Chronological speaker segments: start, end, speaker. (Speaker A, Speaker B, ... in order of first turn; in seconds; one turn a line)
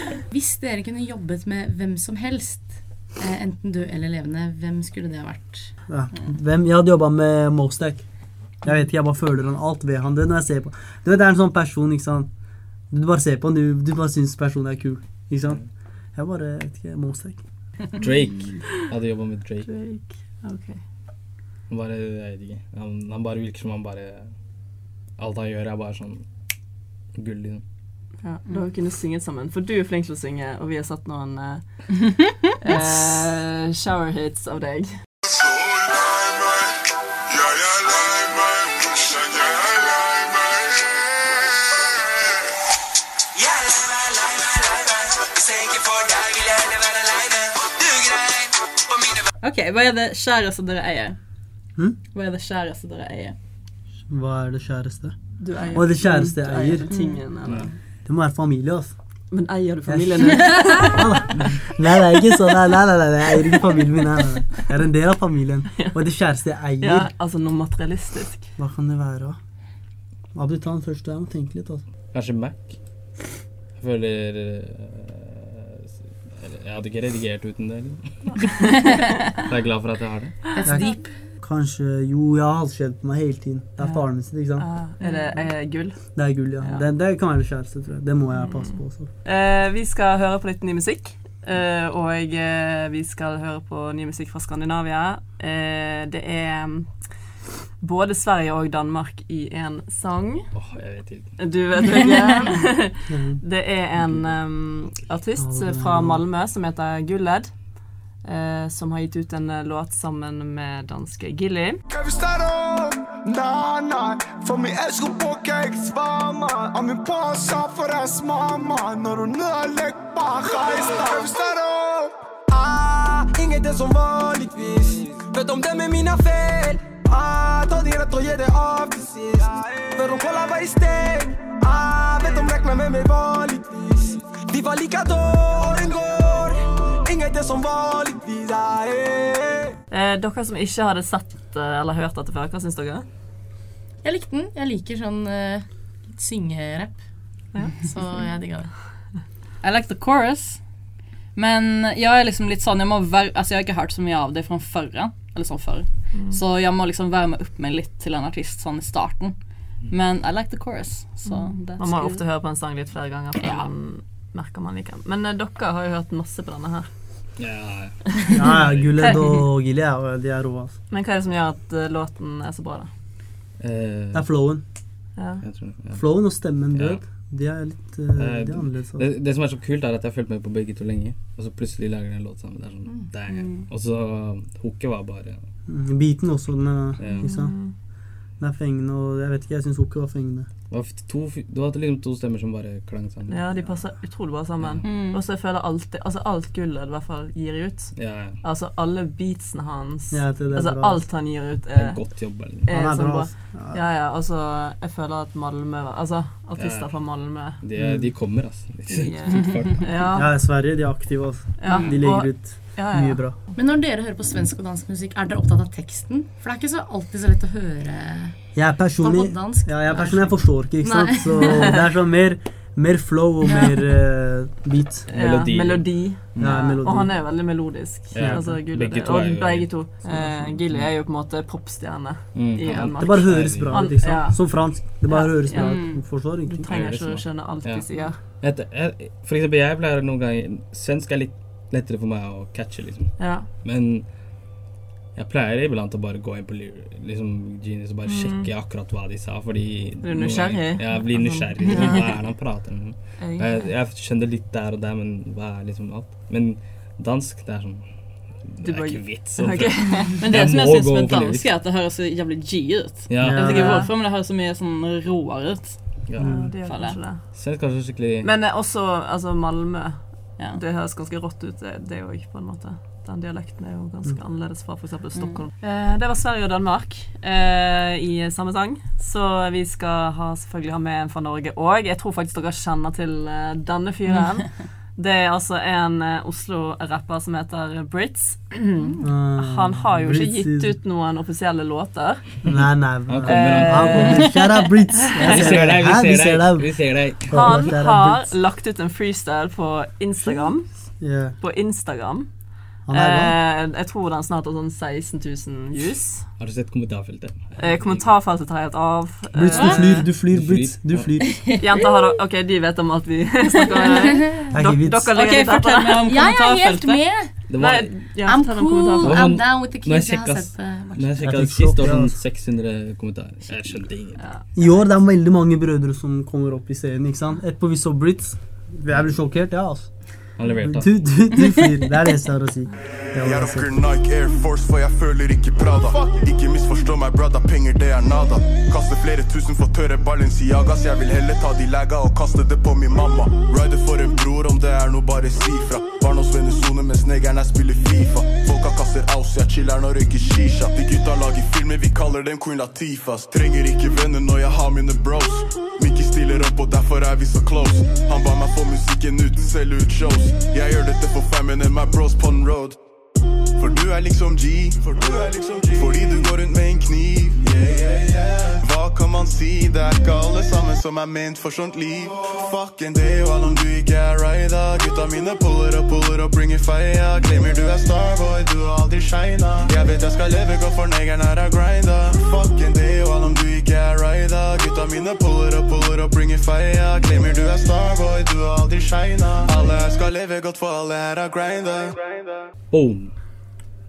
Speaker A: 0.3-5.7
Speaker B: 5.9-12.3
Speaker B: 12.9-17.4
Speaker C: 18.0-19.7
Speaker D: 19.6-20.8
Speaker C: 21.7-24.3
Speaker C: 25.2-26.3
Speaker C: 27.1-27.6
Speaker D: 28.2-32.0
Speaker D: 32.6-35.0
Speaker E: 49.4-51.2
Speaker E: 52.1-53.4
Speaker B: 54.1-55.1
Speaker D: 55.4-57.7
Speaker B: 55.7-56.9
Speaker E: 56.9-57.2
Speaker C: 57.5-57.7
Speaker B: 58.0-59.0
Speaker D: 59.3-61.0
Speaker B: 59.9-67.1
Speaker D: 66.8-68.5
Speaker B: 68.6-69.4
Speaker B: 70.3-71.8
Speaker C: 72.1-72.8
Speaker C: 73.8-75.7
Speaker C: 76.3-78.3
Speaker D: 78.3-79.1
Speaker C: 79.5-80.5
Speaker A: 80.5-81.2
Speaker B: 80.6-84.7
Speaker D: 83.8-86.9
Speaker E: 85.1-85.3
Speaker B: 86.2-89.1
Speaker D: 89.2-96.9
Speaker D: 97.8-100.5
Speaker C: 100.5-101.4
Speaker D: 101.4-111.8
Speaker B: 103.1-103.4
Speaker B: 105.4-106.2
Speaker F: 111.9-139.7
Speaker D: 139.9-143.1
Speaker A: 144.0-148.8
Speaker D: 147.5-147.8
Speaker E: 149.6-150.6
Speaker E: 151.3-159.3
Speaker D: 156.1-156.4
Speaker E: 159.9-162.2
Speaker D: 161.3-166.9
Speaker C: 167.4-168.0
Speaker B: 168.3-170.8
Speaker D: 170.9-172.9
Speaker C: 173.6-174.3
Speaker B: 174.1-174.6
Speaker D: 175.2-175.4
Speaker C: 175.4-177.1
Speaker B: 175.9-179.1
Speaker C: 178.2-185.4
Speaker E: 183.3-183.7
Speaker B: 185.7-187.6
Speaker C: 187.0-187.3
Speaker D: 187.2-187.7
Speaker B: 188.4-190.5
Speaker C: 190.7-193.8
Speaker D: 193.3-207.6
Speaker C: 194.6-194.9
Speaker E: 194.8-195.2
Speaker C: 197.9-198.4
Speaker B: 200.1-201.0
Speaker C: 201.7-202.7
Speaker B: 202.7-203.8
Speaker C: 206.6-210.1
Speaker B: 207.8-208.1
Speaker D: 208.9-210.3
Speaker B: 210.2-213.4
Speaker D: 211.6-213.2
Speaker A: 213.6-218.5
Speaker B: 218.5-225.1
Speaker A: 219.0-221.8
Speaker A: 223.4-223.8
Speaker C: 225.1-226.6
Speaker D: 225.1-238.2
Speaker B: 226.4-227.1
Speaker C: 228.1-230.9
Speaker B: 228.2-228.5
Speaker C: 232.3-234.2
Speaker B: 232.7-236.7
Speaker E: 235.5-236.0
Speaker C: 236.7-244.5
Speaker D: 243.2-243.5
Speaker C: 245.1-261.5
Speaker D: 248.1-248.5
Speaker D: 250.0-252.2
Speaker D: 253.2-253.7
Speaker D: 258.6-260.1
Speaker E: 260.2-266.1
Speaker C: 263.1-263.8
Speaker B: 263.2-263.8
Speaker D: 263.4-263.9
Speaker C: 266.1-266.5
Speaker B: 266.2-266.5
Speaker D: 266.2-267.2
Speaker E: 266.7-267.0
Speaker C: 267.2-268.3
Speaker D: 268.2-292.6
Speaker E: 275.1-275.4
Speaker B: 289.0-290.8
Speaker B: 292.4-298.3
Speaker C: 293.1-294.3
Speaker D: 293.2-294.4
Speaker C: 295.1-297.7
Speaker D: 295.2-295.6
Speaker D: 297.3-306.3
Speaker B: 300.9-301.4
Speaker B: 302.9-303.4
Speaker C: 306.4-308.1
Speaker D: 307.6-310.1
Speaker B: 309.3-311.6
Speaker C: 310.0-311.1
Speaker E: 311.2-311.6
Speaker D: 311.6-316.1
Speaker A: 314.0-314.5
Speaker B: 314.5-315.2
Speaker E: 315.1-317.0
Speaker A: 316.1-317.4
Speaker C: 317.5-318.1
Speaker D: 317.6-319.3
Speaker A: 318.2-321.2
Speaker C: 319.0-324.4
Speaker B: 321.2-322.2
Speaker D: 324.2-324.4
Speaker B: 324.5-333.7
Speaker C: 328.9-329.2
Speaker C: 330.4-331.2
Speaker G: 333.2-362.8
Speaker G: 363.6-392.1
Speaker C: 392.7-393.5